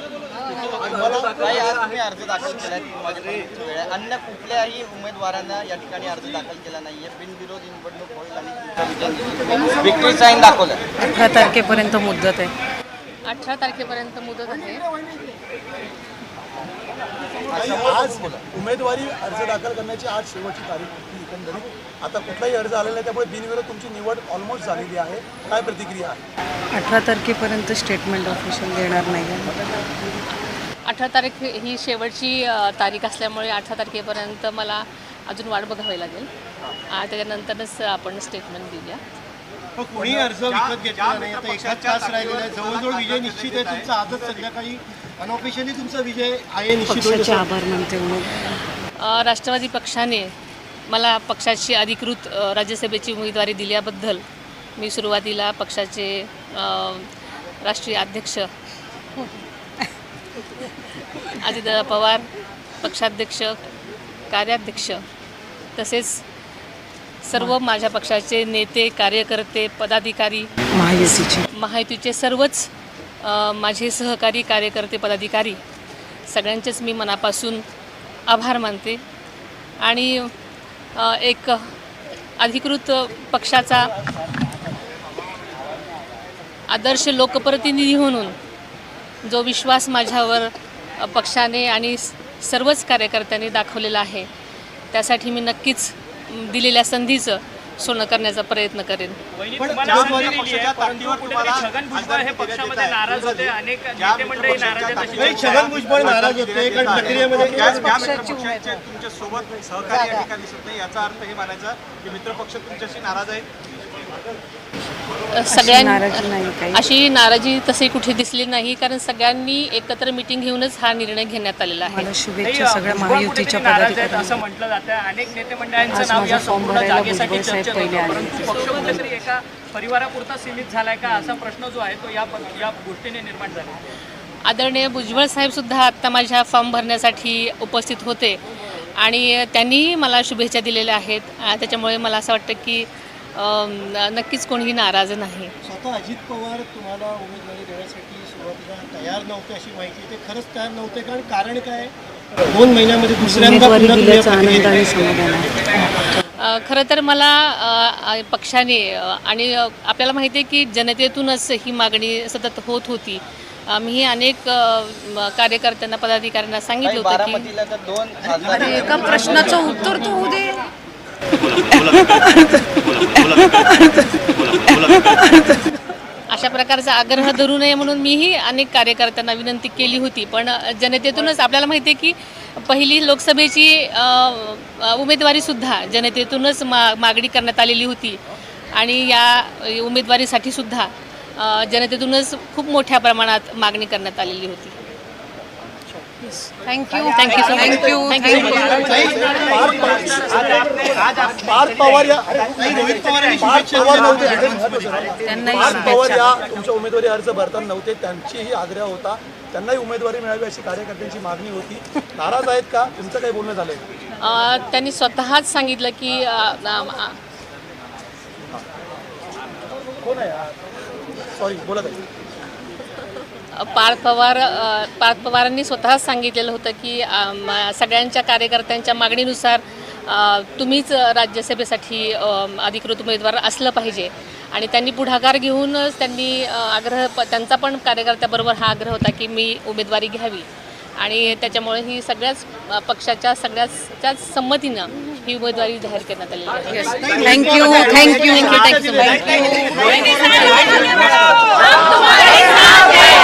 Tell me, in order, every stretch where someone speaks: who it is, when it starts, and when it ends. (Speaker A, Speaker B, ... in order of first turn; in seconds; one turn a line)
Speaker A: 0.8-1.5
Speaker B: 1.4-10.9
Speaker C: 9.4-10.4
Speaker D: 11.0-12.5
Speaker E: 13.3-14.9
Speaker B: 17.5-18.4
Speaker C: 17.6-18.0
Speaker A: 17.6-26.2
Speaker D: 26.7-29.6
Speaker E: 30.9-36.3
Speaker E: 36.9-39.0
Speaker C: 39.8-47.5
Speaker F: 39.9-44.5
Speaker D: 46.9-48.6
Speaker E: 49.0-50.3
Speaker E: 50.9-54.2
Speaker E: 54.8-57.1
Speaker E: 57.6-58.5
Speaker E: 61.4-62.3
Speaker E: 62.8-63.6
Speaker E: 64.3-65.0
Speaker E: 65.8-66.2
Speaker E: 67.2-70.5
Speaker D: 70.8-71.5
Speaker E: 71.5-72.7
Speaker E: 73.2-75.6
Speaker E: 76.3-77.6
Speaker E: 78.3-79.0
Speaker E: 79.8-80.3
Speaker E: 81.0-81.7
Speaker E: 82.4-83.9
Speaker E: 86.7-88.3
Speaker E: 89.2-94.3
Speaker E: 94.9-99.2
Speaker G: 99.3-105.8
Speaker C: 99.6-100.4
Speaker F: 99.7-113.5
Speaker C: 105.0-108.0
Speaker A: 106.7-107.1
Speaker D: 107.3-108.8
Speaker E: 115.3-122.1
Speaker D: 115.5-116.8
Speaker D: 121.9-124.4
Speaker G: 122.4-133.8
Speaker D: 125.9-129.0
Speaker E: 134.4-138.4
Speaker E: 139.0-145.5
Speaker C: 145.6-151.9
Speaker C: 152.5-154.8
Speaker D: 153.2-155.9
Speaker E: 156.4-167.5
Speaker B: 166.8-169.7
Speaker C: 168.2-170.4
Speaker D: 168.6-170.6
Speaker D: 171.5-175.7
Speaker E: 176.3-188.2
Speaker E: 188.7-194.8
Speaker D: 196.2-199.1
Speaker G: 196.9-206.6
Speaker E: 197.1-199.1
Speaker C: 198.8-200.1
Speaker A: 199.0-202.4
Speaker F: 200.1-201.3
Speaker F: 202.4-204.5
Speaker C: 202.4-205.1
Speaker A: 203.3-213.8
Speaker D: 205.2-206.4
Speaker E: 214.2-217.2
Speaker A: 220.0-220.5
Speaker A: 221.3-222.0
Speaker E: 223.6-240.5
Speaker E: 241.0-248.4
Speaker D: 246.8-251.2
Speaker C: 246.8-251.8